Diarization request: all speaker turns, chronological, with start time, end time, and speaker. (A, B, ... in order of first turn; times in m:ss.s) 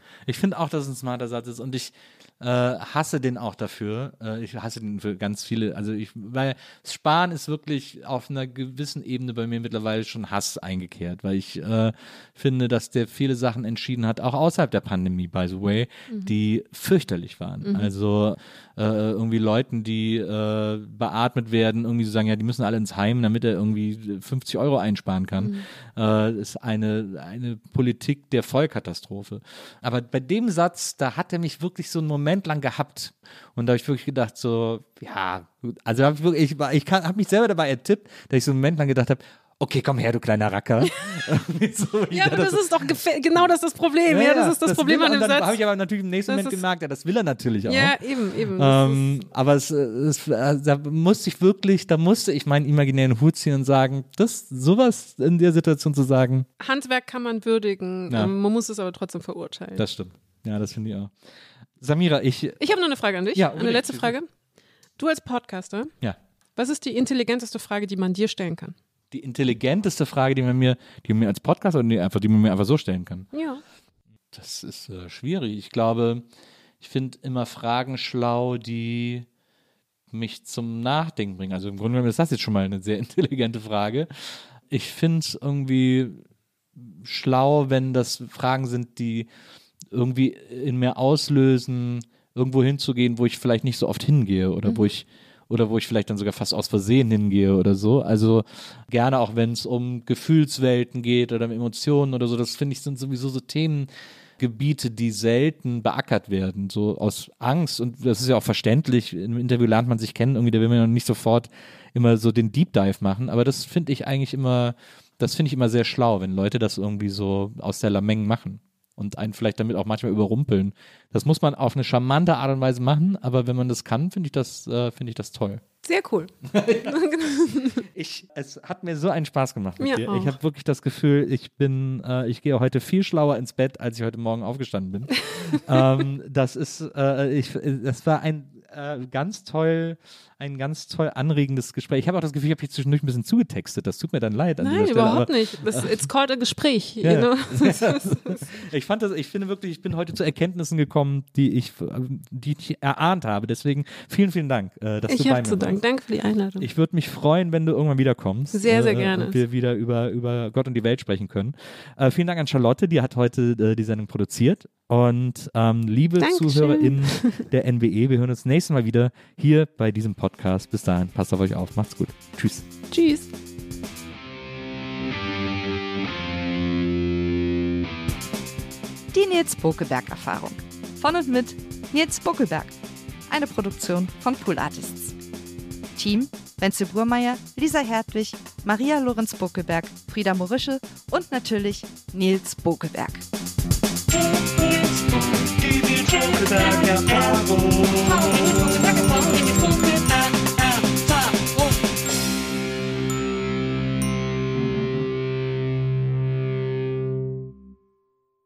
0:00.3-0:43.4 A
0:16.1-0:16.3 B
0:17.6-0:17.9 B
0:25.4-0:25.7 B
0:42.1-0:45.6 B
0:44.1-0:48.0 A
0:46.3-0:46.6 B
0:47.7-0:49.1 B
0:48.5-0:56.5 A
0:56.6-0:59.9 B
0:59.8-1:01.1 A
1:01.8-1:02.8 A
1:02.6-1:04.3 B
1:03.3-1:04.1 A
1:05.0-1:05.9 B
1:06.6-1:08.8 B
1:09.1-1:13.3 A
1:13.3-1:13.6 B
1:14.3-1:16.2 A
1:16.8-1:19.3 A
1:20.1-1:26.2 A
1:26.8-1:29.3 A
1:29.9-2:05.6 A
2:05.8-2:06.3 B
2:06.4-2:07.1 A
2:06.8-2:07.8 B
2:07.9-2:26.0 A
2:09.8-2:10.4 B
2:24.6-2:28.5 B
2:27.0-2:35.8 A
2:35.1-2:36.7 B
2:36.6-2:52.7 A
2:38.5-2:39.4 B
2:46.2-2:47.4 B
2:52.9-2:53.3 B
2:59.1-3:02.8 C
3:03.3-3:05.2 C
3:06.0-3:13.2 C
3:15.4-3:18.6 A